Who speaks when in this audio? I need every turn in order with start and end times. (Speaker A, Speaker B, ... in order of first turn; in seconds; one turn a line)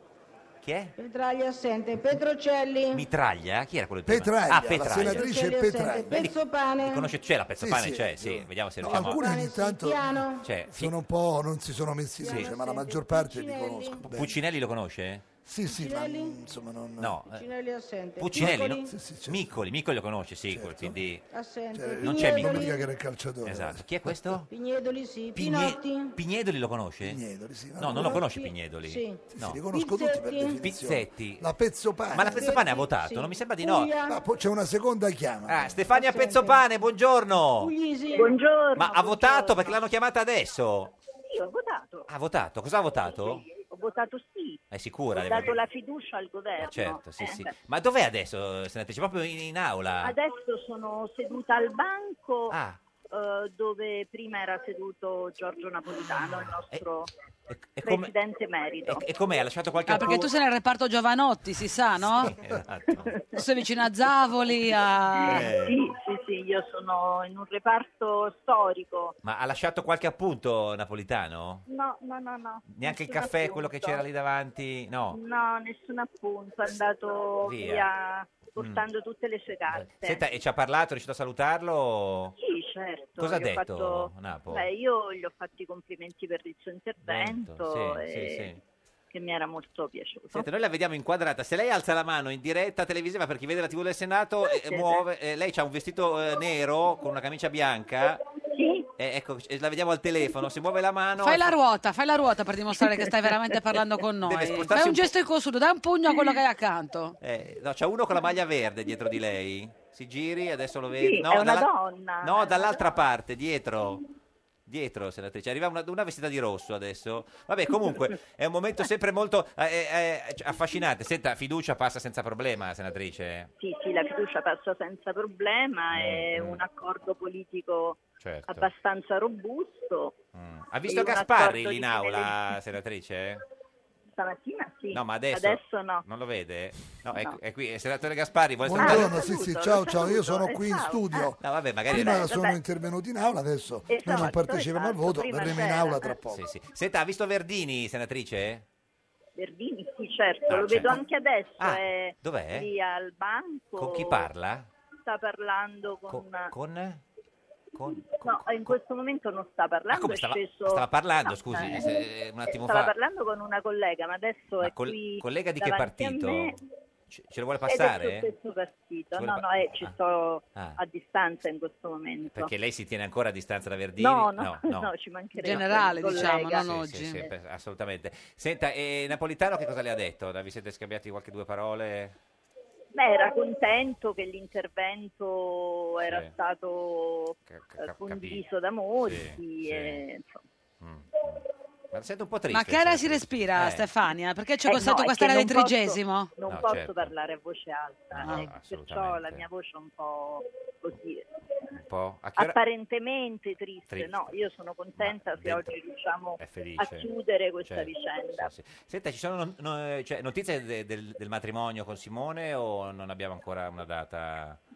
Speaker A: 0.6-0.9
Speaker B: 1.0-3.0
Speaker A: 2.9-5.3
Speaker C: 4.0-6.2
Speaker B: 5.0-7.1
Speaker A: 6.1-9.2
Speaker C: 7.6-10.2
Speaker B: 8.8-10.4
Speaker A: 10.4-10.9
Speaker C: 10.7-14.4
Speaker B: 12.2-14.0
Speaker A: 14.1-15.2
Speaker C: 15.4-17.1
Speaker B: 15.7-16.4
Speaker A: 17.0-17.4
Speaker B: 17.3-18.9
Speaker A: 18.2-21.2
Speaker C: 18.4-19.5
Speaker C: 20.5-21.0
Speaker B: 21.3-22.8
Speaker C: 21.7-24.1
Speaker A: 22.0-22.7
Speaker A: 23.4-24.5
Speaker B: 24.5-26.1
Speaker A: 25.3-27.2
Speaker C: 27.0-28.2
Speaker A: 27.8-29.6
Speaker B: 27.9-30.6
Speaker C: 29.3-32.5
Speaker A: 30.6-31.4
Speaker A: 32.1-33.9
Speaker B: 32.2-34.2
Speaker C: 34.1-35.8
Speaker A: 35.5-37.7
Speaker B: 35.9-36.6
Speaker B: 37.6-38.3
Speaker D: 38.1-39.8
Speaker A: 38.8-40.9
Speaker D: 41.3-42.1
Speaker A: 42.1-43.4
Speaker D: 43.1-44.6
Speaker A: 44.7-45.6
Speaker D: 45.1-47.5
Speaker A: 46.6-50.1
Speaker D: 50.0-52.6
Speaker A: 52.5-52.8
Speaker D: 53.1-57.1
Speaker A: 57.5-58.1
Speaker D: 57.8-59.0
Speaker A: 58.8-60.3
Speaker E: 59.9-62.3
Speaker A: 62.0-63.2
Speaker D: 63.0-63.3
Speaker E: 63.3-65.4
Speaker D: 65.2-69.2
Speaker A: 65.2-65.8
Speaker A: 69.2-71.6
Speaker D: 71.7-74.0
Speaker A: 72.7-75.2
Speaker D: 75.1-80.2
Speaker A: 77.4-77.9
Speaker A: 78.5-78.8
Speaker A: 79.7-82.3
Speaker D: 82.4-88.5
Speaker A: 83.2-84.7
Speaker A: 87.0-88.6
Speaker D: 89.1-90.5
Speaker A: 90.3-98.2
Speaker D: 94.5-95.0
Speaker D: 98.5-98.9
Speaker A: 99.0-101.5
Speaker E: 101.2-107.2
Speaker A: 104.2-105.1
Speaker A: 107.2-111.7
Speaker D: 111.0-113.0
Speaker A: 112.2-114.0
Speaker A: 114.7-123.5
Speaker D: 123.6-130.2
Speaker A: 125.9-126.6
Speaker A: 128.2-128.7
Speaker A: 130.3-133.4
Speaker D: 130.8-132.4
Speaker D: 134.2-136.0
Speaker A: 134.9-139.2
Speaker C: 138.6-141.4
Speaker D: 138.8-141.3
Speaker A: 141.4-142.3
Speaker C: 141.9-146.4
Speaker D: 142.0-142.6
Speaker D: 143.9-146.1
Speaker A: 146.3-148.6
Speaker D: 149.3-154.2
Speaker A: 150.5-151.0
Speaker A: 151.6-152.7
Speaker A: 153.8-154.7
Speaker D: 155.1-156.5
Speaker A: 156.1-157.0
Speaker A: 157.7-158.8
Speaker D: 158.2-166.6
Speaker A: 159.9-162.9
Speaker A: 164.6-166.6
Speaker A: 167.1-168.3
Speaker D: 167.7-172.5
Speaker A: 169.1-169.9
Speaker A: 172.3-174.9
Speaker D: 174.0-176.7
Speaker E: 175.4-177.2
Speaker A: 175.5-182.2
Speaker D: 182.9-190.4
Speaker A: 186.0-186.3
Speaker A: 187.5-188.4
Speaker A: 189.0-190.0
Speaker A: 190.8-193.9
Speaker E: 192.5-196.3
Speaker D: 194.7-201.2
Speaker A: 196.4-197.1
Speaker A: 198.1-199.4
Speaker E: 198.2-198.5
Speaker A: 201.7-202.6
Speaker D: 202.4-208.5
Speaker A: 203.9-204.4
Speaker A: 205.0-205.7
Speaker A: 206.4-207.1
Speaker A: 207.6-214.6